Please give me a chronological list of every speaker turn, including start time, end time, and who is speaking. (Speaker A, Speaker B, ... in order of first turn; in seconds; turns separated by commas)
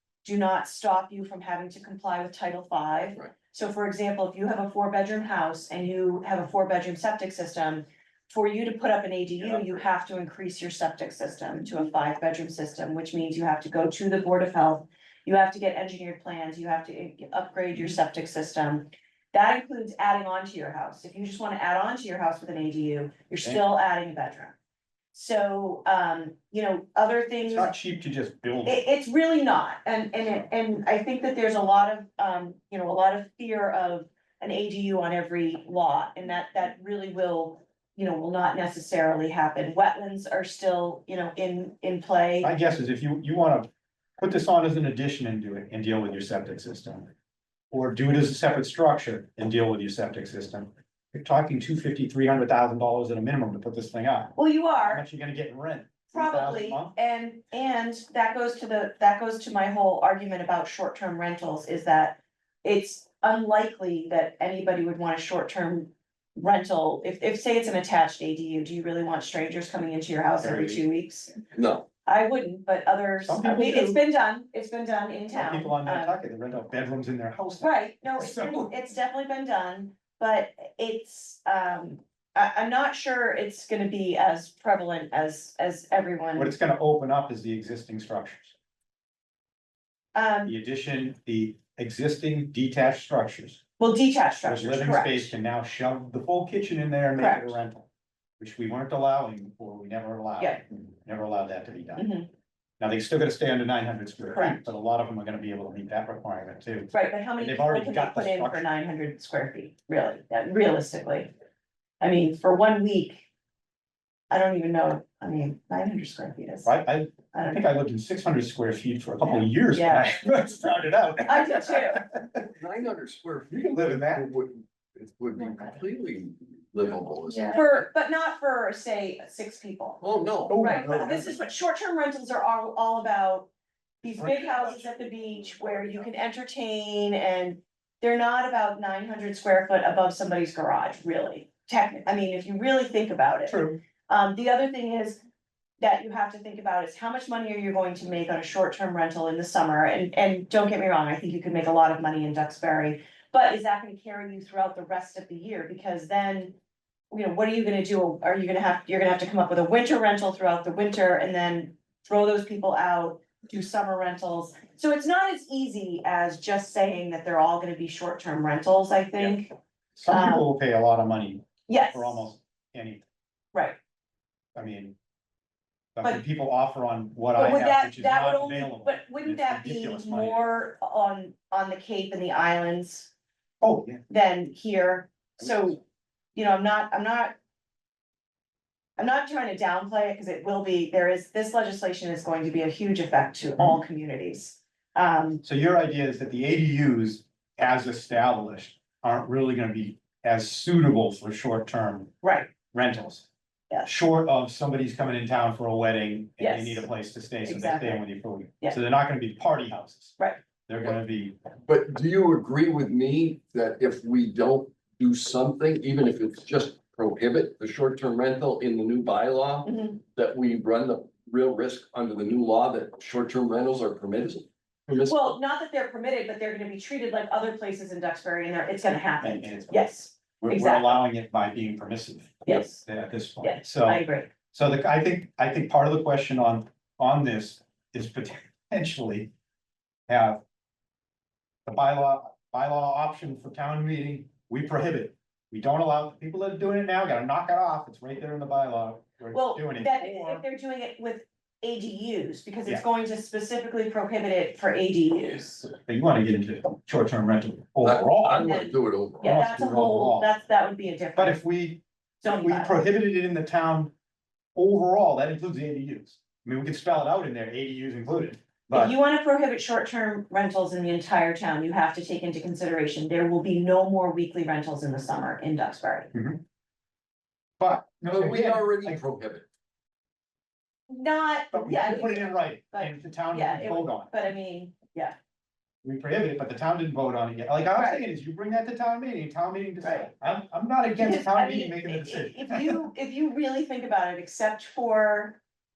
Speaker A: 0.2-24.6, Speaker B: 9.5-9.8, Speaker A: 25.1-27.7, Speaker C: 27.5-28.8, Speaker A: 28.6-42.5, Speaker C: 42.4-43.7, Speaker C: 44.2-47.1, Speaker C: 47.7-56.9, Speaker A: 54.4-55.0, Speaker A: 56.1-71.3, Speaker B: 70.4-70.8, Speaker B: 71.5-71.8, Speaker A: 72.0-76.1, Speaker C: 73.2-74.0, Speaker C: 75.3-78.7, Speaker A: 77.6-86.5, Speaker C: 86.3-88.5, Speaker A: 90.1-90.5, Speaker C: 90.5-93.6, Speaker A: 93.8-95.3, Speaker C: 94.4-97.9, Speaker A: 97.2-97.6, Speaker C: 98.4-102.1, Speaker A: 102.0-102.3, Speaker C: 102.8-108.6, Speaker A: 104.3-104.7, Speaker A: 106.9-111.3, Speaker A: 112.0-113.2, Speaker A: 114.3-116.7, Speaker C: 116.6-122.4, Speaker A: 117.3-117.6, Speaker A: 119.7-120.2, Speaker A: 121.2-122.0, Speaker B: 122.5-127.6, Speaker C: 123.7-124.2, Speaker A: 127.5-133.5, Speaker B: 130.0-130.6, Speaker C: 130.5-131.4, Speaker A: 134.0-145.2, Speaker C: 134.2-135.0, Speaker C: 143.5-143.8, Speaker A: 145.8-156.6, Speaker A: 157.1-169.5, Speaker C: 169.9-173.1, Speaker A: 170.1-170.4, Speaker A: 171.7-172.2, Speaker C: 174.5-174.9, Speaker C: 175.9-180.5, Speaker A: 177.3-183.1, Speaker C: 183.6-184.0, Speaker A: 184.1-185.8, Speaker A: 186.3-187.3, Speaker A: 189.0-195.4, Speaker C: 195.4-202.2, Speaker A: 202.2-202.5, Speaker C: 202.7-203.3, Speaker C: 203.8-211.4, Speaker A: 206.4-206.8, Speaker A: 207.4-208.0, Speaker B: 211.7-225.3, Speaker A: 219.7-220.0, Speaker A: 225.1-231.0, Speaker C: 229.2-229.9, Speaker C: 230.4-239.3, Speaker A: 232.4-232.8, Speaker A: 233.4-234.3, Speaker C: 240.1-240.4, Speaker C: 241.7-250.4, Speaker A: 249.3-255.7, Speaker C: 255.7-258.5, Speaker B: 257.8-259.4, Speaker A: 258.4-261.4, Speaker C: 259.2-260.3, Speaker C: 261.2-263.9, Speaker A: 262.2-262.8, Speaker C: 264.6-269.0, Speaker A: 268.7-276.1, Speaker C: 276.1-276.4, Speaker C: 277.6-279.0, Speaker B: 278.1-279.5, Speaker A: 280.9-285.1, Speaker C: 281.5-284.1, Speaker C: 285.8-292.8, Speaker A: 287.7-288.0, Speaker A: 289.8-290.1, Speaker A: 291.0-295.4